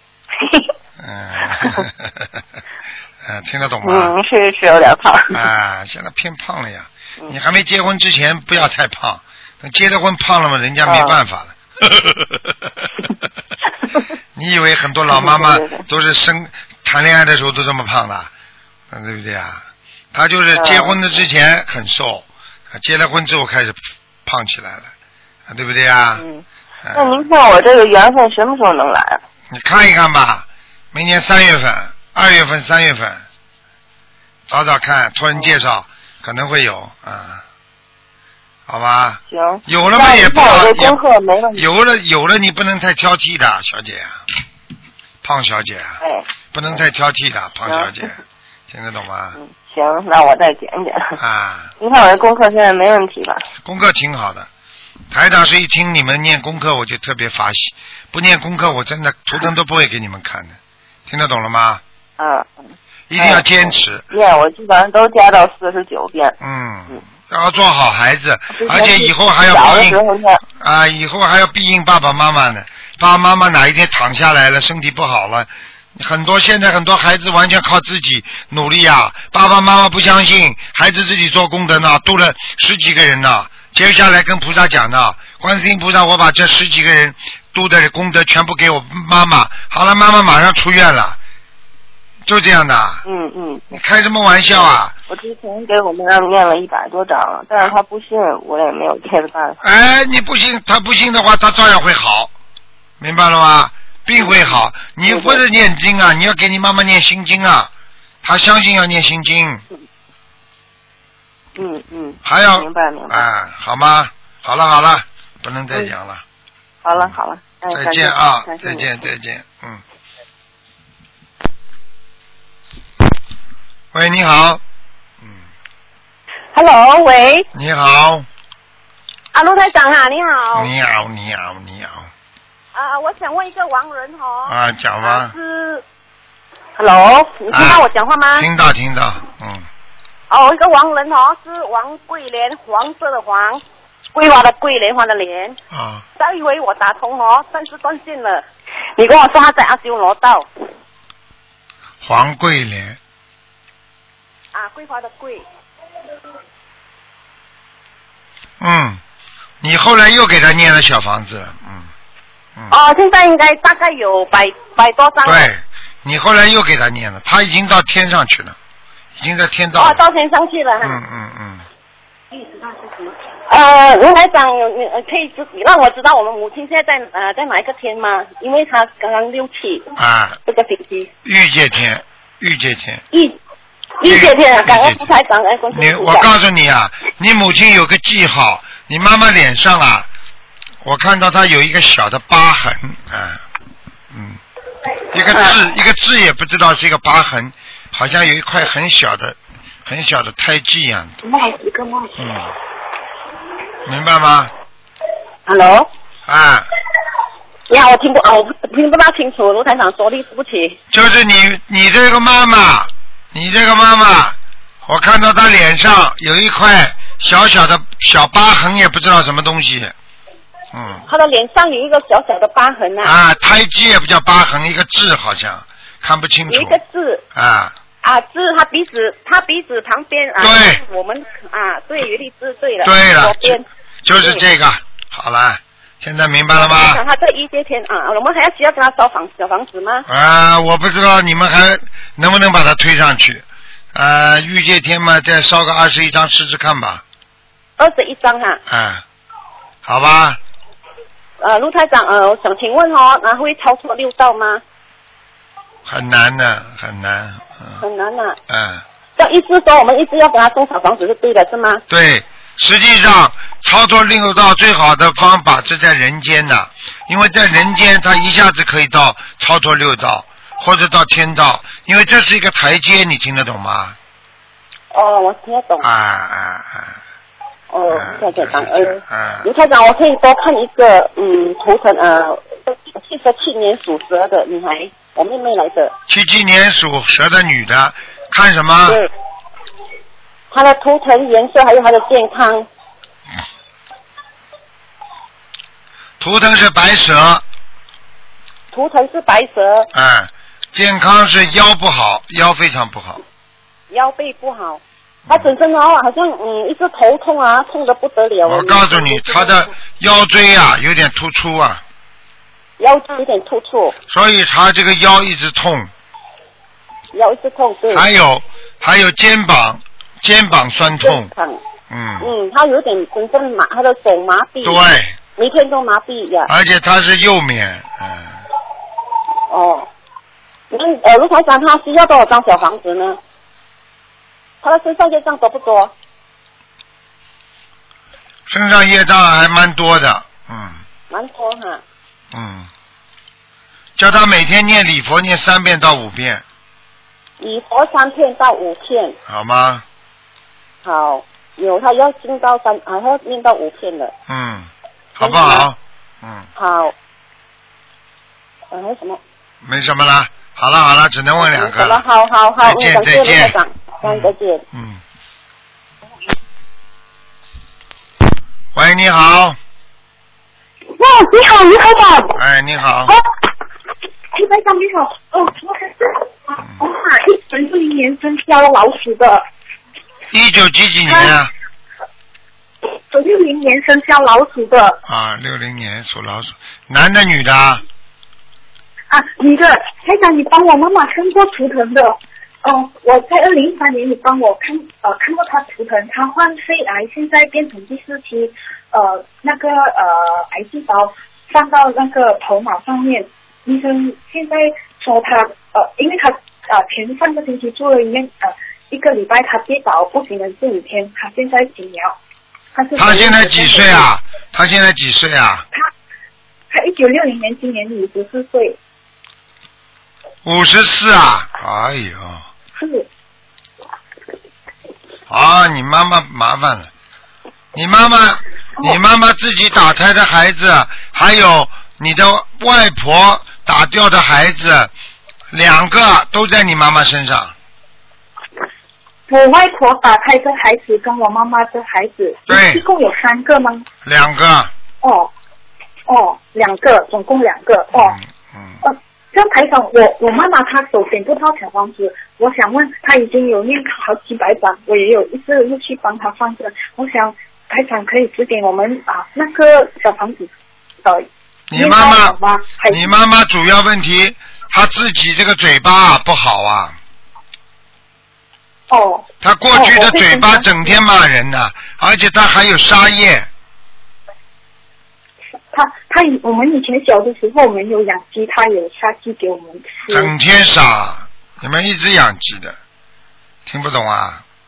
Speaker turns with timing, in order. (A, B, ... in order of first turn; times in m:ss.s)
0:00.4-0:00.7 A
0:01.0-0:02.3 B
0:03.2-0:04.1 B
0:03.8-0:05.4 A
0:05.3-0:12.3 B
0:10.8-0:11.2 A
0:14.4-0:18.3 B
0:15.1-0:15.8 A
0:18.9-0:24.9 B
0:20.6-0:21.0 A
0:25.5-0:26.2 B
0:26.2-0:29.2 A
0:26.8-0:27.2 B
0:29.5-0:33.2 B
0:34.5-0:37.4 B
0:38.7-0:41.0 B
0:39.3-0:41.7 A
0:41.6-0:44.2 B
0:45.2-0:46.0 B
0:46.0-0:46.8 A
0:46.5-0:49.4 B
0:47.6-0:48.2 A
0:49.4-0:51.2 A
0:51.2-0:51.7 B
0:51.8-0:53.5 A
0:53.6-0:54.5 B
0:55.1-1:01.8 B
1:02.2-1:06.4 A
1:03.1-1:04.0 B
1:06.4-1:10.0 B
1:08.5-1:10.4 A
1:10.6-1:31.2 B
1:32.3-1:33.0 B
1:33.0-1:33.7 A
1:33.7-1:35.0 B
1:35.1-1:39.6 A
1:39.6-1:42.3 B
1:43.0-1:47.7 B
1:44.2-1:45.4 A
1:48.2-1:49.6 B
1:51.6-1:53.3 A
1:52.2-1:56.2 B
1:56.8-1:59.0 A
1:57.7-1:59.8 B
2:03.9-2:04.6 B
2:06.5-2:07.5 C
2:07.5-2:08.3 B
2:09.3-2:10.7 C
2:10.5-2:12.1 B
2:12.7-2:15.8 C
2:14.4-2:15.3 B
2:16.8-2:18.5 C
2:17.5-2:19.7 B
2:20.3-2:23.6 C
2:24.2-2:25.6 C
2:25.7-2:26.0 B
2:26.2-2:28.4 C
2:29.0-2:30.5 C
2:32.0-2:33.0 B
2:34.5-2:35.4 C
2:38.6-2:39.0 B
2:39.6-2:41.9 B
2:42.7-2:45.5 C
2:45.2-2:48.6 B
2:49.2-2:50.0 B
2:49.8-2:51.0 C
2:50.8-2:51.6 B
2:52.3-2:59.9 C
3:00.0-3:00.4 B
3:00.5-3:01.1 C
3:01.2-3:03.0 B
3:03.1-3:03.4 C
3:04.0-3:06.3 C
3:04.0-3:05.0 B
3:05.7-3:10.1 B
3:10.8-3:13.4 B
3:14.1-3:14.4 B
3:15.1-3:21.2 B
3:15.3-3:15.6 C
3:21.2-3:22.2 D
3:22.2-3:22.5 B
3:23.9-3:24.5 B
3:25.5-3:25.9 C
3:26.3-3:26.7 B
3:27.7-3:30.8 C
3:30.9-3:39.9 B
3:40.7-3:41.0 B
3:41.1-3:43.2 C
3:43.0-3:46.8 B
3:46.5-3:47.2 C
3:47.3-3:47.7 B
3:48.0-3:53.7 C
3:50.4-3:50.8 B
3:52.8-3:57.0 B
3:54.2-3:54.4 C
3:56.6-4:00.1 C
4:00.1-4:07.0 B
4:07.8-4:08.6 C
4:08.7-4:09.0 B
4:09.8-4:10.4 B
4:11.4-4:14.6 C
4:15.9-4:17.8 B
4:17.8-4:18.4 C
4:18.5-4:18.8 B
4:19.2-4:21.8 C
4:21.9-4:34.0 B
4:34.9-4:35.9 C
4:35.8-4:37.0 B
4:37.7-4:45.9 C
4:37.9-4:39.5 B
4:46.1-4:49.0 B
4:50.5-4:52.7 C
4:56.2-4:57.4 B
4:58.7-4:59.9 C
4:59.9-5:03.2 B
5:03.9-5:09.6 C
5:08.4-5:11.8 B
5:12.8-5:14.0 C
5:14.1-5:15.9 B
5:17.1-5:18.1 C
5:17.9-5:21.3 B
5:21.0-5:21.6 C
5:21.9-5:22.3 B
5:22.2-5:24.8 C
5:24.6-5:25.2 B
5:25.4-5:26.5 C
5:26.5-5:28.4 B
5:29.5-5:29.9 C
5:30.7-5:33.2 C
5:34.6-5:35.9 C
5:38.5-5:40.8 B
5:41.1-5:41.8 C
5:42.3-5:42.7 B
5:44.0-5:46.4 B
5:47.4-5:49.2 C
5:49.3-5:49.8 B
5:50.8-5:54.1 C
5:54.3-5:56.5 B
5:55.2-5:55.7 C
5:56.6-5:56.9 C
5:58.7-5:59.2 C
5:59.6-6:02.0 B
6:01.4-6:04.6 C
6:02.6-6:05.0 B
6:08.8-6:09.6 B
6:11.0-6:12.4 D
6:12.4-6:13.2 B
6:14.3-6:19.4 D
6:20.3-6:21.5 B
6:21.1-6:21.4 D
6:23.1-6:25.0 D
6:25.1-6:27.8 B
6:29.1-6:52.2 D
6:52.8-6:54.1 D
6:53.0-6:55.7 B
6:56.7-6:58.8 D
7:00.4-7:02.5 B
7:02.8-7:03.1 D
7:05.3-7:06.9 B
7:07.8-7:14.9 B
7:15.5-7:17.6 B
7:19.3-7:23.9 D
7:22.5-7:22.8 B
7:24.0-7:24.7 B
7:25.0-7:25.3 D
7:26.1-7:28.2 D
7:27.9-7:28.8 B
7:28.8-7:40.5 D
7:41.0-7:43.1 D
7:41.7-7:47.0 B
7:48.9-7:51.0 D
7:49.4-7:53.5 B
7:55.7-8:00.3 D
8:00.1-8:02.8 B
8:03.7-8:04.4 B